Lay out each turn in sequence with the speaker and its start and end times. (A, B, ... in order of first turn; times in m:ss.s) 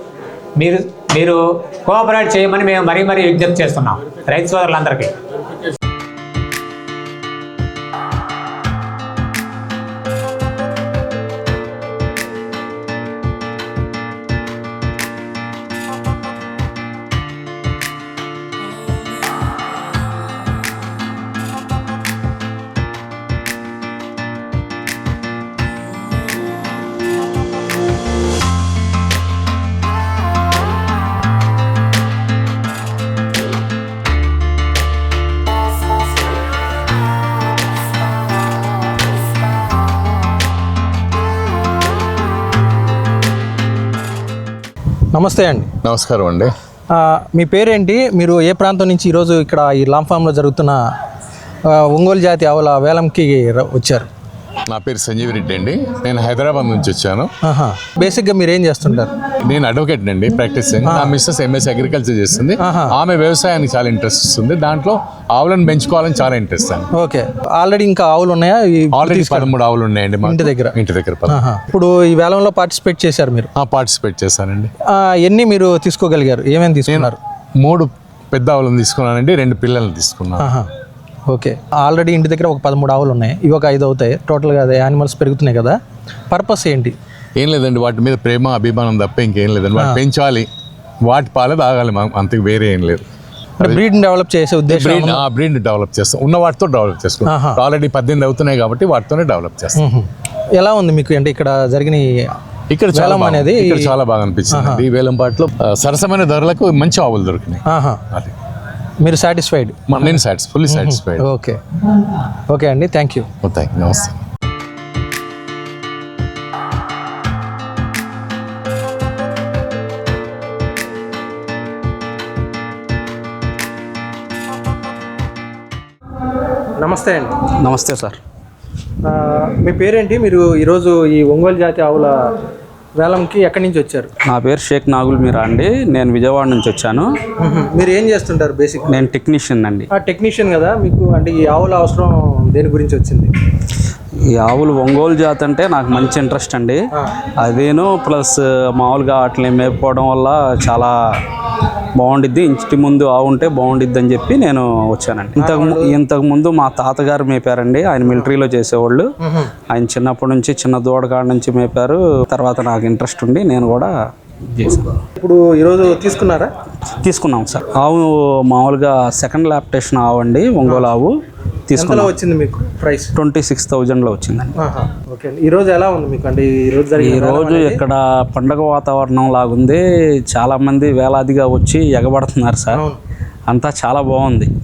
0:00.6-0:05.1 A
0:45.1-0:45.7 B
0:45.8-0:46.5 C
0:46.9-0:50.8 B
0:51.7-0:54.1 B
0:54.7-0:57.3 C
0:57.4-0:59.1 B
0:59.5-1:06.9 C
1:00.8-1:01.1 B
1:02.6-1:02.9 B
1:06.9-1:09.5 B
1:08.9-1:11.4 C
1:10.2-1:10.8 B
1:11.3-1:13.5 B
1:13.6-1:14.7 C
1:14.9-1:17.2 B
1:16.9-1:20.5 C
1:20.4-1:20.6 B
1:21.3-1:25.8 B
1:26.3-1:26.9 B
1:27.4-1:30.5 C
1:31.0-1:33.0 C
1:33.6-1:35.2 B
1:34.7-1:39.8 C
1:37.2-1:37.6 B
1:39.8-1:42.3 B
1:42.7-1:48.3 C
1:42.9-1:43.9 B
1:44.5-1:44.8 B
1:47.6-1:48.0 B
1:49.0-1:51.6 B
1:49.9-1:51.3 C
1:52.5-1:53.3 B
1:53.4-1:54.2 C
2:06.8-2:07.3 B
2:07.6-2:08.2 D
2:09.0-2:12.2 B
2:13.0-2:14.1 B
2:14.2-2:17.1 D
2:17.4-2:19.0 B
2:18.9-2:19.9 D
2:19.9-2:23.3 B
2:24.3-2:26.8 D
2:27.4-2:30.9 D
2:32.0-2:43.9 D
2:35.4-2:36.0 B
2:39.2-2:39.5 B
2:44.5-2:45.0 D
2:45.2-2:46.5 B
2:47.0-2:51.1 D
2:51.7-2:52.1 D
2:51.7-2:53.1 B
2:53.2-2:54.6 D
2:54.6-2:57.8 B
2:57.0-3:02.8 D
3:02.7-3:03.0 B
3:03.5-3:04.5 D